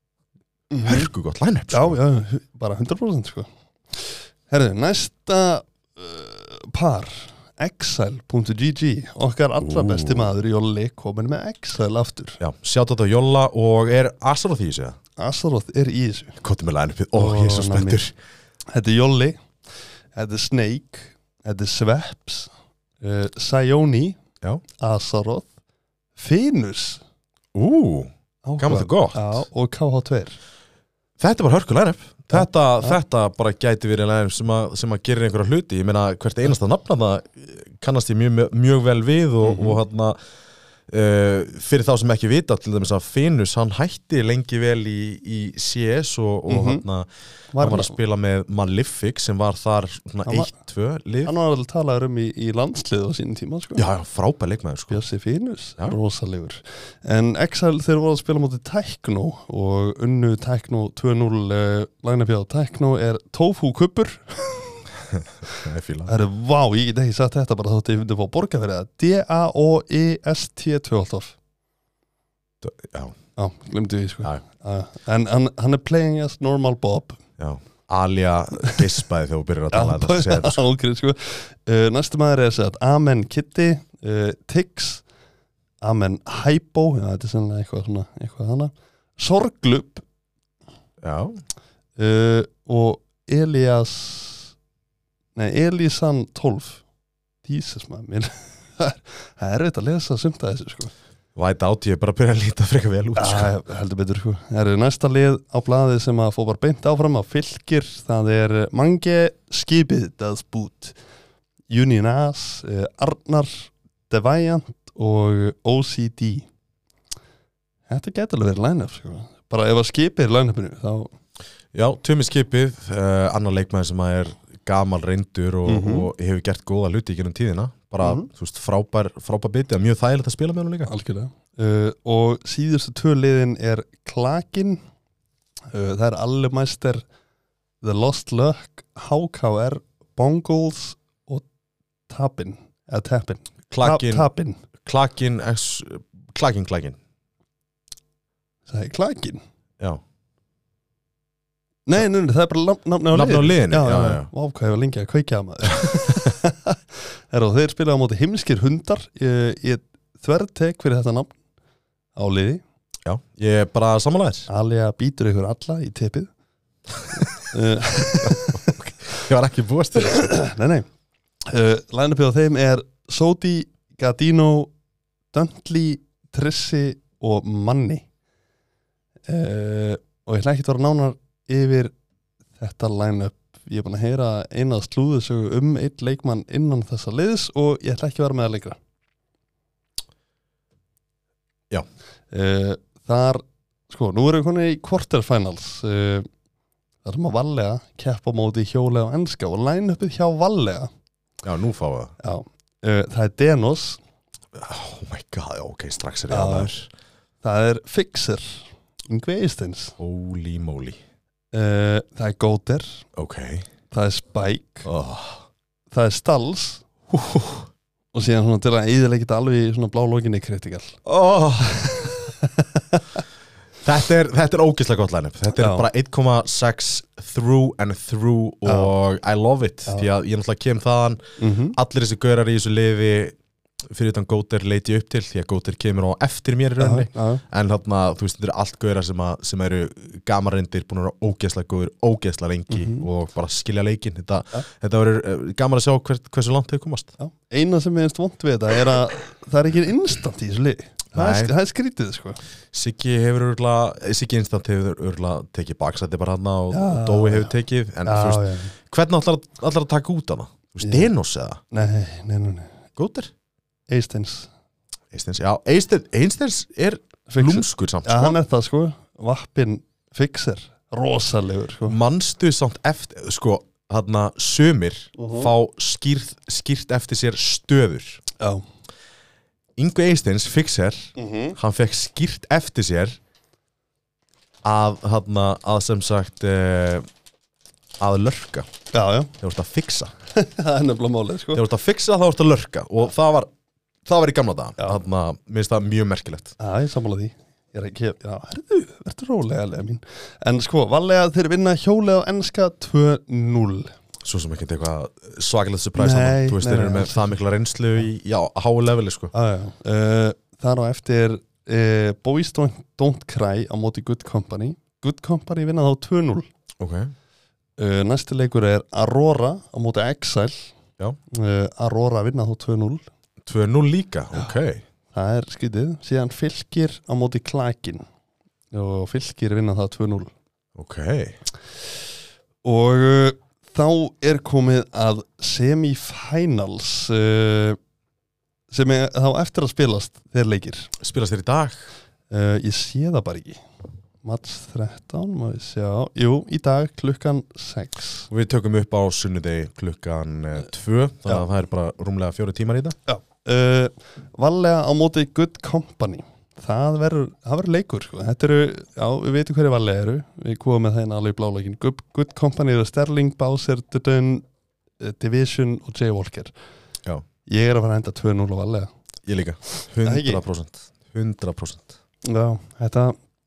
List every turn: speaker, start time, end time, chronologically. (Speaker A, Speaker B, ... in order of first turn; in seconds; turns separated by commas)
Speaker A: 0.7-1.1, Speaker B: 0.8-2.0, Speaker A: 1.7-12.4, Speaker B: 9.6-10.3, Speaker B: 12.4-15.0, Speaker A: 15.2-16.4, Speaker B: 16.4-18.1, Speaker A: 17.1-18.0, Speaker A: 18.7-19.4, Speaker A: 20.1-24.2, Speaker A: 24.8-25.5, Speaker A: 26.1-27.0, Speaker B: 27.5-29.4, Speaker A: 28.4-30.4, Speaker B: 31.2-40.2, Speaker A: 32.3-33.0, Speaker A: 39.4-39.8, Speaker B: 40.9-47.1, Speaker A: 46.5-46.8, Speaker A: 47.5-47.9, Speaker B: 47.6-51.3, Speaker A: 50.2-50.5, Speaker A: 51.2-53.8, Speaker B: 53.8-55.0, Speaker A: 54.9-64.9, Speaker B: 65.1-66.1, Speaker A: 66.1-71.3, Speaker B: 72.6-73.2, Speaker A: 73.3-77.2, Speaker B: 77.4-80.6, Speaker A: 79.7-85.0, Speaker A: 85.8-90.0, Speaker B: 91.0-91.4, Speaker A: 92.0-94.5, Speaker A: 95.3-96.8, Speaker A: 97.4-100.9, Speaker B: 101.3-103.5, Speaker A: 103.2-111.0, Speaker A: 111.7-116.5, Speaker A: 117.9-121.1, Speaker B: 121.7-130.9, Speaker A: 125.7-126.1, Speaker A: 128.0-128.3, Speaker A: 130.9-134.8, Speaker A: 135.7-137.0, Speaker A: 137.8-141.4, Speaker A: 142.1-144.6, Speaker B: 143.7-144.3, Speaker B: 144.8-147.0, Speaker A: 148.7-149.4, Speaker A: 151.9-156.8, Speaker B: 153.1-154.3, Speaker B: 155.8-156.3, Speaker A: 157.3-161.3, Speaker A: 162.1-162.6, Speaker B: 163.0-164.5, Speaker A: 164.5-166.3, Speaker A: 167.2-168.6, Speaker B: 168.2-170.4, Speaker A: 170.0-170.9, Speaker A: 171.4-174.7, Speaker A: 175.3-178.1, Speaker A: 179.3-181.9, Speaker A: 182.6-188.8, Speaker A: 192.3-196.3, Speaker A: 197.0-200.9, Speaker B: 201.4-202.1, Speaker A: 202.2-204.0, Speaker B: 204.5-206.9, Speaker A: 206.3-206.7, Speaker A: 207.4-209.9, Speaker B: 210.0-211.0, Speaker A: 211.5-213.0, Speaker B: 213.2-213.7, Speaker A: 213.9-214.9, Speaker B: 214.8-215.4, Speaker A: 215.9-216.8, Speaker B: 217.1-217.7, Speaker A: 218.1-221.0, Speaker B: 221.1-222.2, Speaker A: 222.4-223.0, Speaker B: 223.8-231.2, Speaker A: 225.5-225.9, Speaker A: 228.7-228.9, Speaker A: 231.4-231.8, Speaker B: 231.7-233.4, Speaker B: 233.9-247.1, Speaker A: 236.8-237.4, Speaker A: 242.7-243.1, Speaker A: 247.2-252.4, Speaker B: 251.1-251.5, Speaker B: 252.7-261.6, Speaker A: 256.7-258.7, Speaker A: 260.8-261.1, Speaker A: 261.7-262.8, Speaker B: 262.9-263.3, Speaker A: 263.9-264.5, Speaker B: 265.1-268.4, Speaker A: 267.3-272.0, Speaker B: 271.9-278.2, Speaker A: 275.2-275.5, Speaker B: 279.8-283.2, Speaker A: 281.2-281.6, Speaker B: 284.6-287.1, Speaker B: 288.0-288.7, Speaker A: 288.9-289.3, Speaker B: 289.4-290.1, Speaker A: 290.3-291.6, Speaker B: 291.5-293.5, Speaker B: 294.0-296.5, Speaker A: 296.6-303.9, Speaker B: 304.2-309.3, Speaker A: 306.0-307.4, Speaker A: 309.3-316.5, Speaker B: 316.8-317.1, Speaker A: 317.8-320.7, Speaker A: 321.3-323.0, Speaker B: 323.4-324.8, Speaker A: 325.1-328.0, Speaker A: 328.7-330.3, Speaker B: 330.8-331.4, Speaker A: 332.6-337.8, Speaker A: 338.7-340.9, Speaker B: 341.0-341.8, Speaker A: 342.3-343.6, Speaker A: 344.2-348.3, Speaker B: 348.3-353.0, Speaker A: 353.1-364.4, Speaker A: 365.0-366.5, Speaker A: 367.5-368.9, Speaker B: 369.2-371.9, Speaker A: 370.0-370.4, Speaker A: 372.2-373.2